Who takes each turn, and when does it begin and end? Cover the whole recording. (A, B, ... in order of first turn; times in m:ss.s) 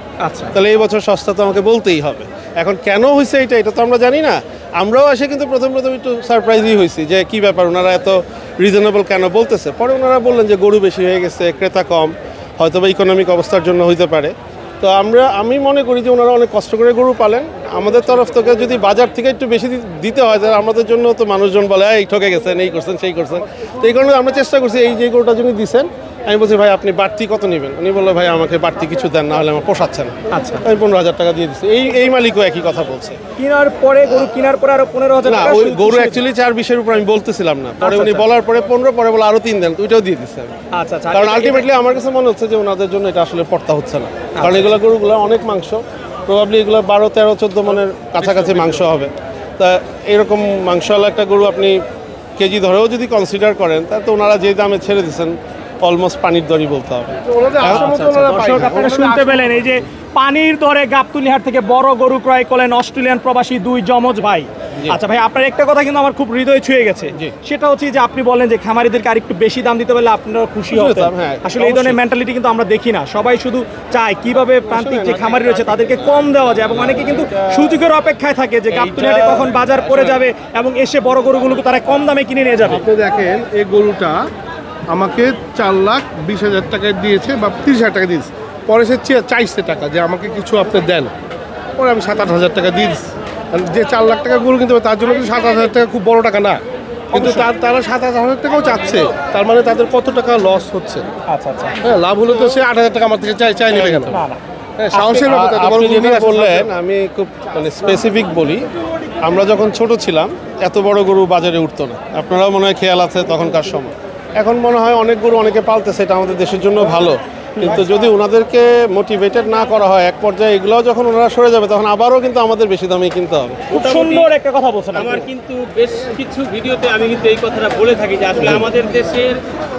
0:00.2-0:00.6 A
0:00.5-0:33.2 B
0:30.3-0:30.6 A
0:33.4-0:36.2 A
0:34.0-0:34.3 B
0:35.2-0:40.5 B
0:37.8-0:38.2 A
0:40.7-0:41.7 A
0:41.1-0:51.8 B
0:44.4-0:44.7 A
0:48.2-0:48.8 C
0:52.4-0:58.4 B
0:57.3-0:59.6 C
0:57.7-1:22.8 A
1:10.7-1:12.0 B
1:14.7-1:15.7 B
1:16.9-1:17.8 B
1:18.7-1:20.2 B
1:22.7-1:24.2 C
1:24.9-1:31.1 C
1:31.8-1:36.6 C
1:37.1-1:41.0 C
1:37.1-1:37.5 A
1:41.3-1:41.8 A
1:41.8-1:44.2 C
1:43.7-1:44.2 B
1:44.1-1:44.4 A
1:44.8-1:46.7 C
1:44.9-1:45.3 A
1:45.2-1:48.6 B
1:49.2-2:03.7 B
2:03.7-2:04.3 D
2:03.7-2:05.3 A
2:04.9-2:09.4 D